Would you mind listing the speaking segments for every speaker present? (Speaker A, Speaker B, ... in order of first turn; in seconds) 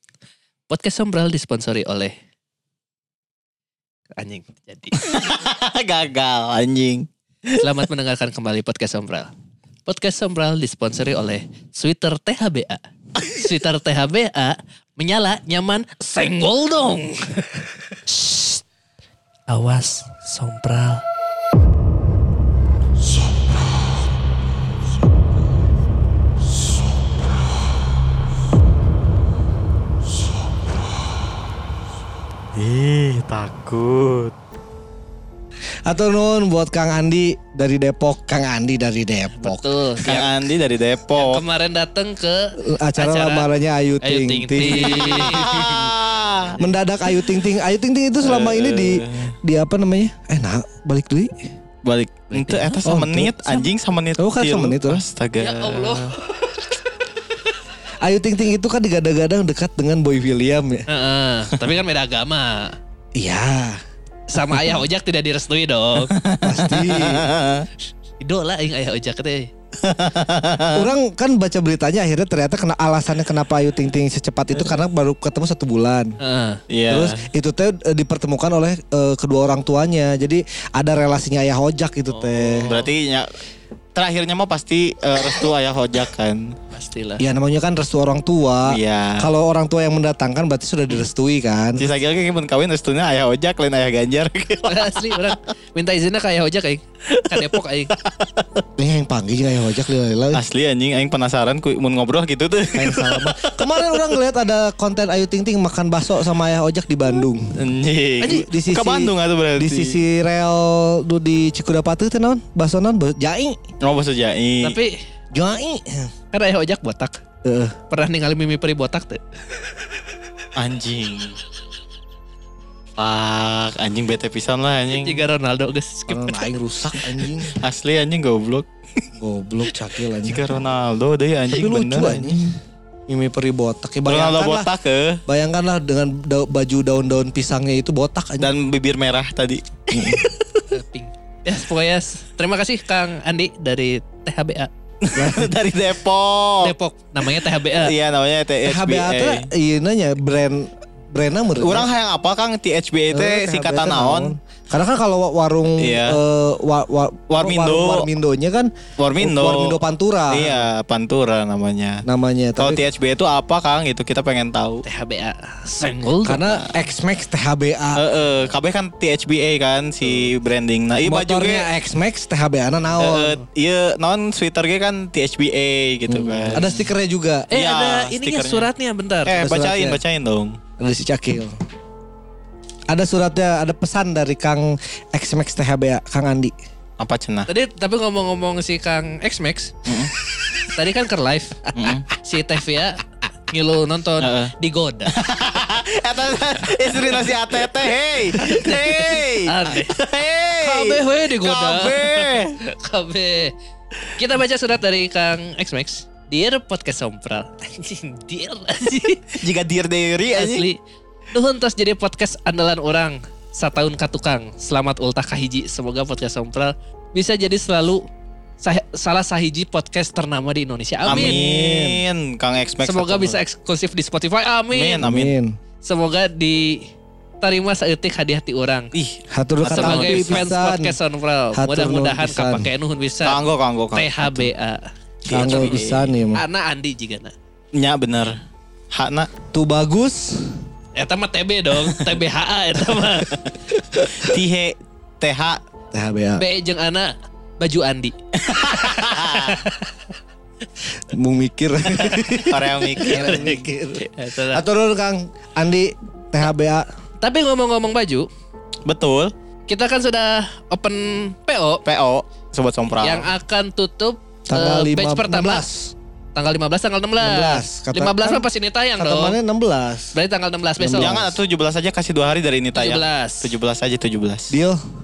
Speaker A: 0.7-2.1, 4.2-5.1, 7.6-9.3, 9.9-18.6, 19.5-21.0, 39.4-40.3, 41.2-43.5, 44.0-45.7, 52.3-52.8, 55.4-56.7, 60.9-62.8, 64.3-66.2, 68.2-69.5, 76.2-76.6, 82.1-82.9, 86.7-87.2, 94.7-98.0, 114.6-115.0, 116.3-117.2, 117.9-119.2, 125.0-126.4, 140.7-144.7, 146.6-147.9, 164.8-166.5, 177.5-179.4, 187.5-189.8, 190.5-195.2, 198.3-200.0, 200.6-203.5, 204.2-209.2, 210.3-210.8, 211.3-218.1, 218.6-221.4, 222.8-225.1, 225.8-226.9, 227.4-228.9, 229.7-233.4, 233.9-234.8, 235.4-235.8, 236.3-237.3, 241.0-243.4, 246.4-250.0, 253.0-254.6, 257.2-258.3, 259.7-261.8, 263.0-265.7, 266.4-269.4, 270.1-271.2, 272.8-273.5
Speaker B: 5.0-7.6, 32.5-34.4, 40.0-41.4, 44.6-46.6, 48.2-49.4, 51.8-56.2, 66.1-67.7, 69.8-70.9, 76.7-77.3, 82.6-83.3, 84.0-86.6, 88.7-89.3, 91.8-95.3, 97.1-98.5, 100.3-104.1, 107.5-110.0, 113.8-114.8, 120.6-121.4, 123.0-125.2, 127.0-129.0, 130.2-132.4, 134.1-135.2, 138.4-140.7, 145.0-146.7, 147.2-149.5, 151.6-154.3, 155.8-156.2, 157.3-158.1, 159.0-159.8, 160.3-162.1, 162.6-164.8, 167.9-171.7, 173.0-176.9, 177.5-178.7, 179.3-180.6, 187.0-187.5, 189.9-190.1, 191.8-192.1, 194.2-194.5, 195.1-202.6, 209.4-210.7, 221.1-223.4, 224.7-225.3, 228.9-230.5, 233.2-234.2, 235.3-236.1, 237.7-238.3, 238.9-239.3, 244.0-245.6, 248.4-249.7, 252.1-253.5, 258.9-259.3, 261.9-263.3, 271.0-274.5
Speaker C: 35.9-40.3, 42.6-45.9, 46.6-51.5, 52.8-55.0, 58.0-60.9, 63.1-63.8, 66.4-67.3, 70.7-76.2, 76.9-82.7, 87.2-91.9, 98.8-100.4, 102.8-107.6, 108.2-113.6, 115.3-116.1, 117.4-117.8, 126.1-127.6, 129.2-130.6, 131.5-134.7, 135.3-138.5, 139.9-140.2, 145.2-145.5, 148.6-151.9, 153.1-160.7, 162.1-162.8, 166.2-168.0, 170.0-170.3, 171.0-173.4, 176.1-177.5, 179.3-180.0, 180.8-181.6, 182.9-186.6, 221.1-222.0, 225.0-225.6, 229.3-230.9, 231.5-232.7, 235.3-236.4, 239.5-240.6, 244.0-244.3, 245.9-246.4, 251.1-256.9, 264.5-265.9, 267.2-270.1, 270.8-271.4, 274.5-274.8